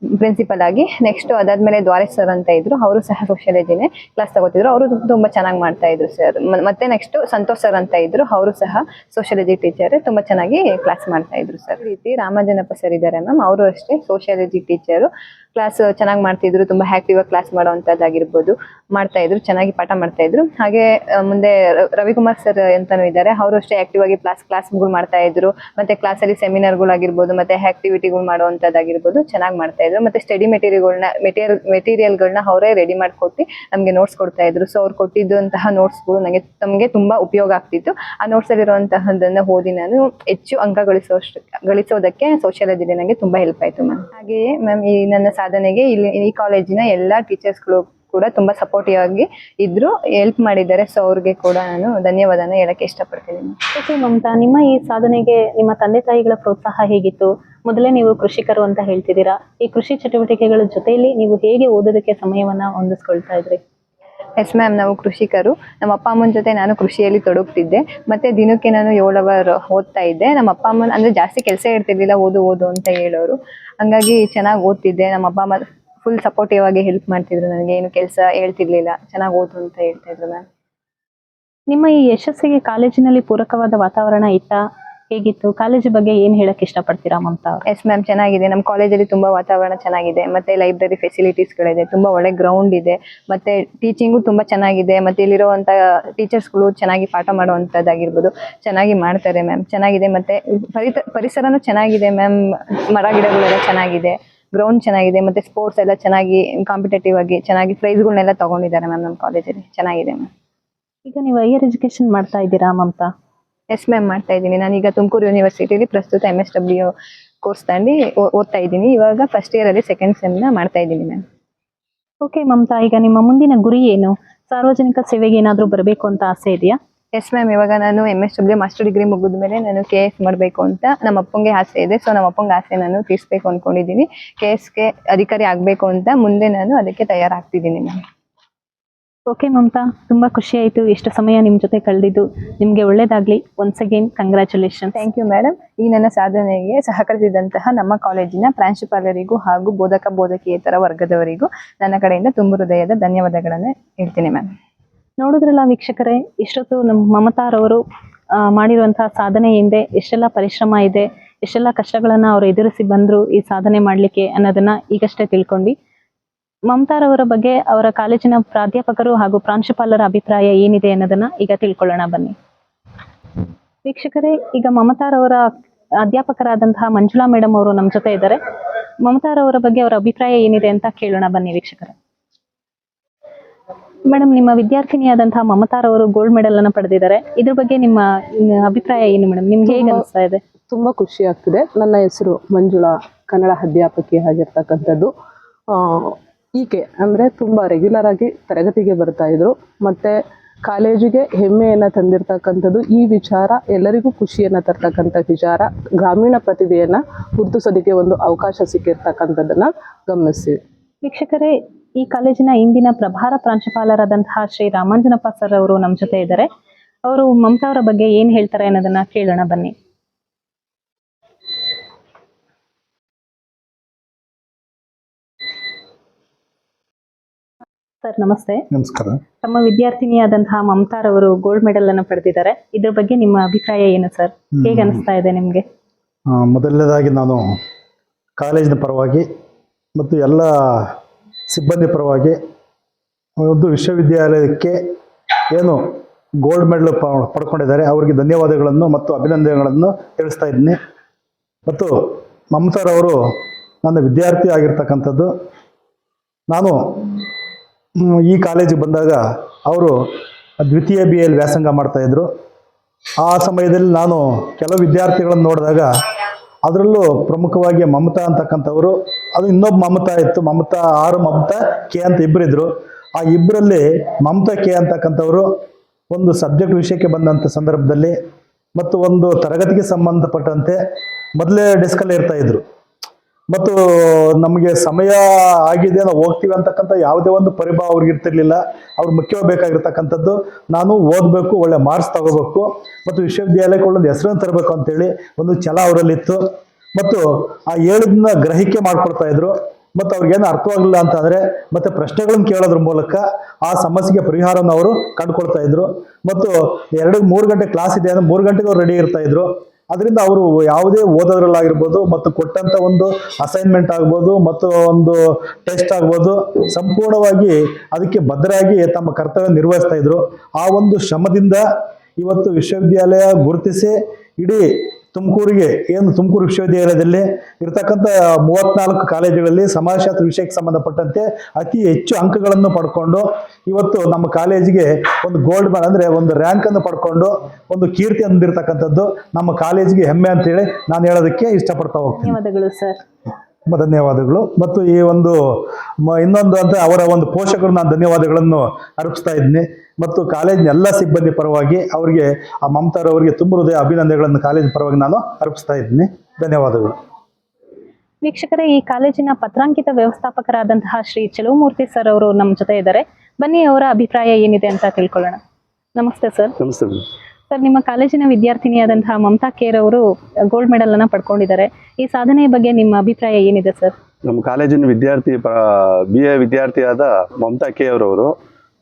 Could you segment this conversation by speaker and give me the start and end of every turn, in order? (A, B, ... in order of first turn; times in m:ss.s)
0:00.2-0:53.6 A
0:53.8-1:03.6 B
1:04.4-1:20.4 A
1:21.7-1:24.6 B
1:25.1-1:27.6 B
1:27.7-1:42.3 A
1:42.9-1:50.3 A
1:51.1-1:53.1 B
1:53.7-1:56.9 A
1:57.4-2:01.2 A
2:02.2-2:06.8 B
2:07.2-2:18.0 A
2:19.3-2:25.0 B
2:25.0-2:34.5 A
2:35.2-2:37.8 B
2:38.5-2:45.8 B
2:46.7-2:52.4 B
2:53.8-2:55.5 B
2:56.0-2:58.4 B
2:59.0-3:01.9 B
3:04.1-3:10.4 B
3:09.7-3:10.0 C
3:10.7-3:15.1 C
3:15.7-3:30.6 C
3:31.0-3:36.5 B
3:37.1-3:39.7 B
3:48.0-3:48.6 B
3:48.7-3:49.2 D
3:49.4-3:55.6 B
3:54.6-3:55.0 D
3:56.3-3:57.4 D
3:58.4-3:59.3 D
4:00.0-4:00.9 D
4:01.5-4:02.4 D
4:03.4-4:04.8 D
4:05.5-4:05.8 D
4:06.4-4:10.8 D
4:11.7-4:11.9 D
4:12.5-4:13.2 D
4:13.8-4:15.3 D
4:16.5-4:16.8 D
4:18.1-4:19.9 D
4:20.6-4:22.2 D
4:23.2-4:25.9 D
4:26.7-4:35.5 D
4:36.1-4:38.2 D
4:38.8-4:40.8 D
4:41.4-4:42.6 D
4:43.5-4:56.4 D
4:56.9-5:21.6 D
5:22.2-5:42.3 D
5:42.1-5:43.0 B
5:43.7-5:45.4 D
5:46.1-5:56.9 D
5:58.2-6:05.4 B
6:06.0-6:06.5 B
6:06.6-6:07.0 E
6:07.5-6:13.9 B
6:14.3-6:18.3 E